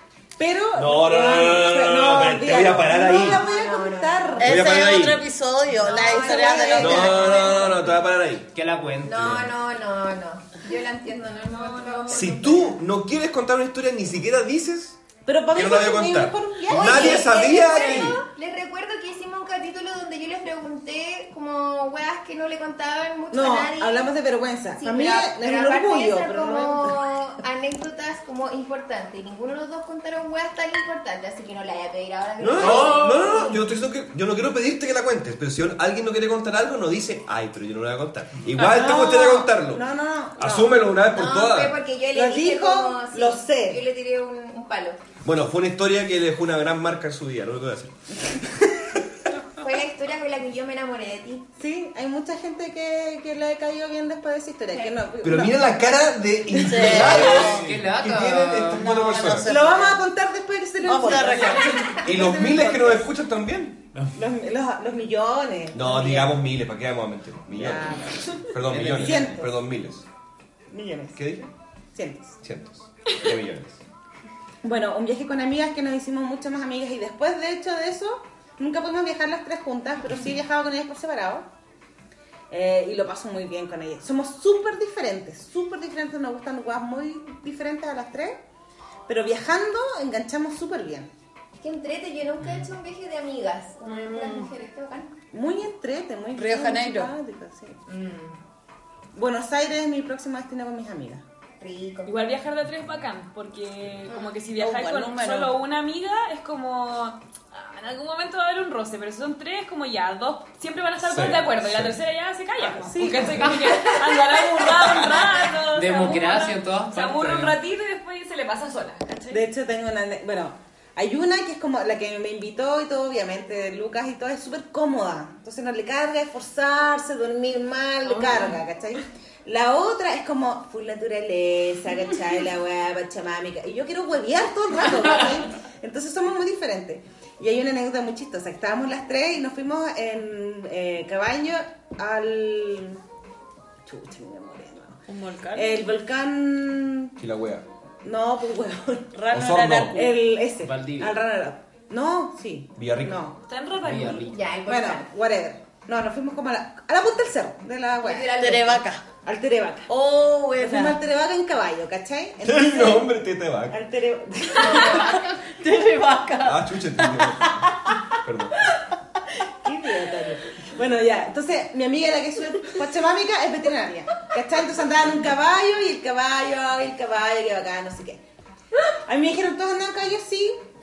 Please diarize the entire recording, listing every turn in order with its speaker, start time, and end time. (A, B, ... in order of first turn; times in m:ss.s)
0:00.4-0:04.8 A
0:00.7-0:03.4 B
0:02.8-0:04.5 C
0:04.4-0:07.6 D
0:04.4-0:05.2 B
0:05.8-0:08.0 C
0:06.1-0:07.2 A
0:06.8-0:08.5 B
0:08.5-0:09.6 E
0:09.0-0:12.8 C
0:11.5-0:12.4 F
0:12.1-0:15.0 B
0:15.3-0:18.1 A
0:15.5-0:18.2 B
0:16.7-0:24.1 C
0:23.3-0:27.1 A
0:24.8-0:33.6 C
0:32.4-0:39.9 B
0:32.6-0:33.2 A
0:38.5-0:40.8 A
0:40.4-0:41.8 B
0:41.1-0:45.0 C
0:42.1-0:43.9 A
0:45.2-0:48.9 B
0:49.6-0:51.5 C
0:51.6-0:55.7 A
0:54.7-0:55.1 C
0:55.2-0:59.5 B
0:56.6-0:57.7 D
0:56.8-0:57.1 A
0:56.8-0:59.0 E
0:58.7-1:00.0 D
0:59.5-1:03.1 A
1:00.8-1:01.9 D
1:02.0-1:03.9 B
1:04.1-1:06.4 A
1:05.7-1:10.0 B
1:07.5-1:09.6 A
1:08.7-1:09.4 E
1:10.7-1:11.2 A
1:11.2-1:11.5 B
1:12.0-1:12.4 A
1:12.4-1:13.8 B
1:14.6-1:21.5 A
1:22.5-1:28.4 A
1:29.1-1:31.1 A
1:31.6-1:35.2 C
1:32.4-1:32.7 E
1:33.8-1:34.5 D
1:35.3-1:37.8 A
1:36.4-1:37.1 D
1:37.9-1:38.4 C
1:39.1-1:41.2 A
1:41.6-1:42.2 C
1:42.1-1:59.4 F
1:44.6-1:45.6 D
1:51.0-1:52.0 B
1:52.6-1:55.3 A
1:55.7-1:57.6 E
1:59.3-2:23.0 A
2:08.2-2:08.5 F
2:23.8-2:25.0 A
2:25.1-2:25.8 D
2:25.5-2:27.2 A
2:27.2-2:27.7 B
2:28.0-2:29.2 A
2:29.1-2:30.1 D
2:29.3-2:30.0 B
2:29.9-2:33.4 A
2:30.6-2:31.2 E
2:32.8-2:33.2 B
2:33.4-2:34.4 F
2:33.8-2:34.4 E
2:34.2-2:35.1 C
2:34.7-2:38.5 A
2:38.0-2:38.9 C
2:38.4-2:39.0 D
2:39.2-2:39.9 A
2:39.9-2:41.0 D
2:40.6-2:43.2 A
2:42.4-2:43.8 B
2:43.7-2:45.3 A
2:44.6-2:45.2 C
2:44.6-2:48.0 D
2:46.4-2:48.7 B
2:49.6-2:58.2 A
2:59.1-3:00.6 A